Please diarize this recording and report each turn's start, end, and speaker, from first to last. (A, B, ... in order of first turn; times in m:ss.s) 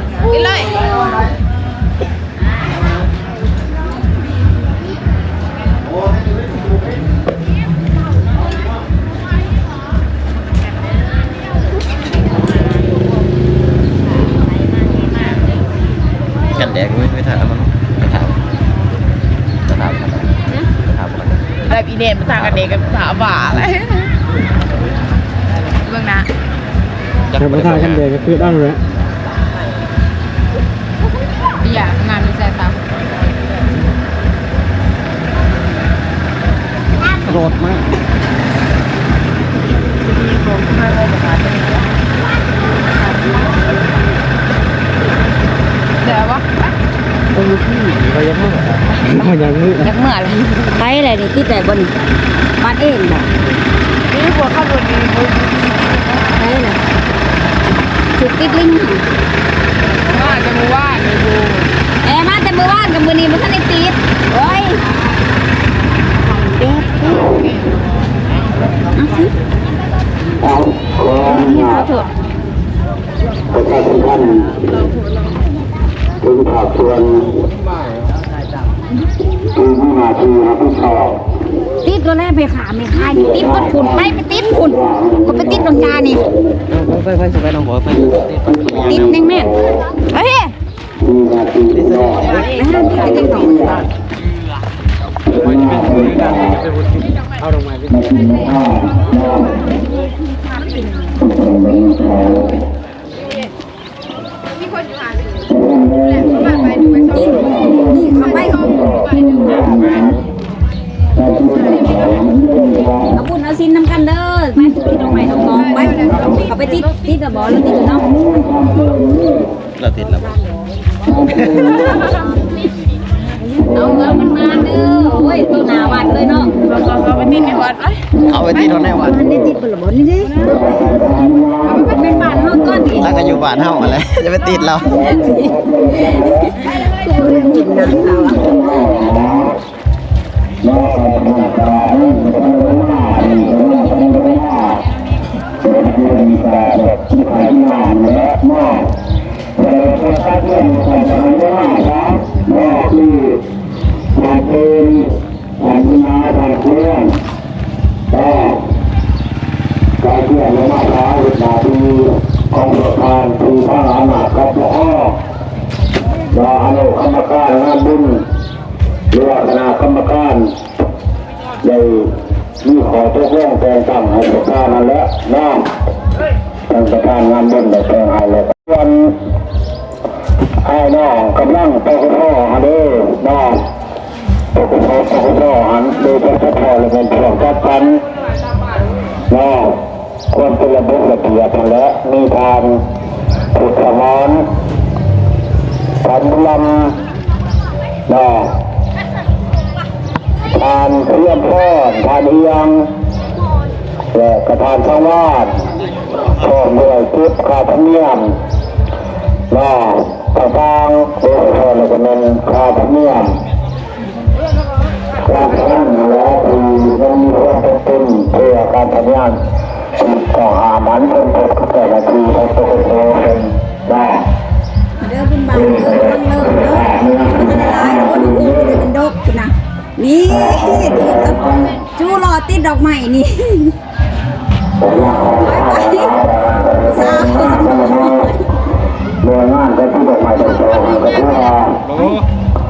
0:00.2-0:01.0 A
0:12.3-0:12.6 B
0:14.2-0:15.4 B
0:16.5-0:18.4 C
0:19.7-0:21.5 C
0:21.7-0:24.1 A
0:22.3-0:22.8 C
0:25.8-0:26.3 A
0:27.3-0:28.1 C
0:27.4-0:28.8 D
0:31.6-0:32.8 A
0:40.1-0:41.4 A
0:46.0-0:46.6 A
0:47.3-0:49.9 D
0:49.8-0:51.9 B
0:52.6-0:53.3 B
0:54.1-0:56.3 A
0:56.4-0:56.8 B
0:58.2-0:59.0 B
1:00.0-1:01.7 A
1:02.0-1:04.8 B
1:06.6-1:07.2 B
1:07.0-1:07.5 A
1:08.9-1:09.3 B
1:10.4-1:11.9 E
1:11.2-1:12.1 B
1:13.5-1:14.6 E
1:16.2-1:17.3 E
1:19.5-1:21.2 E
1:21.8-1:26.2 B
1:23.0-1:26.4 E
1:26.7-1:29.3 C
1:28.6-1:29.9 E
1:28.8-1:29.5 B
1:30.1-1:30.5 A
1:31.0-1:33.8 E
1:31.7-1:32.7 C
1:32.3-1:33.8 A
1:32.5-1:33.7 B
1:35.3-1:36.6 E
1:35.3-1:37.9 D
1:37.9-1:39.7 E
1:39.1-1:41.2 A
1:41.2-1:42.6 E
1:43.2-1:43.5 A
1:44.5-1:45.5 A
1:45.5-1:50.2 E
1:46.0-1:50.0 A
1:47.1-1:48.9 B
1:51.2-1:53.2 E
1:53.1-1:58.2 B
1:54.8-1:55.6 E
1:55.5-1:57.9 A
1:57.8-1:59.5 E
1:59.8-2:00.4 C
2:01.0-2:02.0 E
2:01.3-2:01.7 C
2:01.5-2:02.4 A
2:03.5-2:04.0 E
2:03.6-2:06.5 B
2:03.8-2:04.1 A
2:06.0-2:06.9 E
2:06.6-2:08.1 A
2:08.2-2:09.2 C
2:08.4-2:10.4 B
2:10.2-2:10.9 A
2:10.4-2:13.2 E
2:11.7-2:13.3 B
2:11.7-2:12.0 A
2:12.9-2:15.0 C
2:14.8-2:16.5 E
2:15.0-2:18.7 B
2:16.6-2:18.4 A
2:17.2-2:19.5 E
2:20.6-2:24.8 E
2:23.1-2:24.7 B
2:25.6-2:28.9 E
2:29.6-2:33.4 E
2:34.1-2:37.2 E
2:38.1-2:38.6 E
2:40.0-2:45.2 E
2:46.3-2:48.3 E
2:49.1-2:50.5 E
2:51.6-2:55.7 E
2:56.7-2:59.2 E
3:00.6-3:03.6 E
3:04.5-3:08.0 E
3:09.3-3:09.8 E
3:10.3-3:12.8 E
3:13.5-3:14.5 E
3:16.0-3:17.0 E
3:18.1-3:18.5 E
3:20.4-3:22.9 E
3:24.1-3:25.6 E
3:26.0-3:26.5 C
3:26.2-3:28.4 E
3:29.5-3:33.4 E
3:35.2-3:39.4 E
3:40.0-3:44.2 E
3:45.0-3:53.8 B
3:45.5-3:48.8 E
3:50.3-3:51.7 E
3:54.8-3:58.3 E
3:55.0-3:58.5 B
3:59.2-4:01.8 E
4:00.4-4:01.5 A
4:01.8-4:02.2 D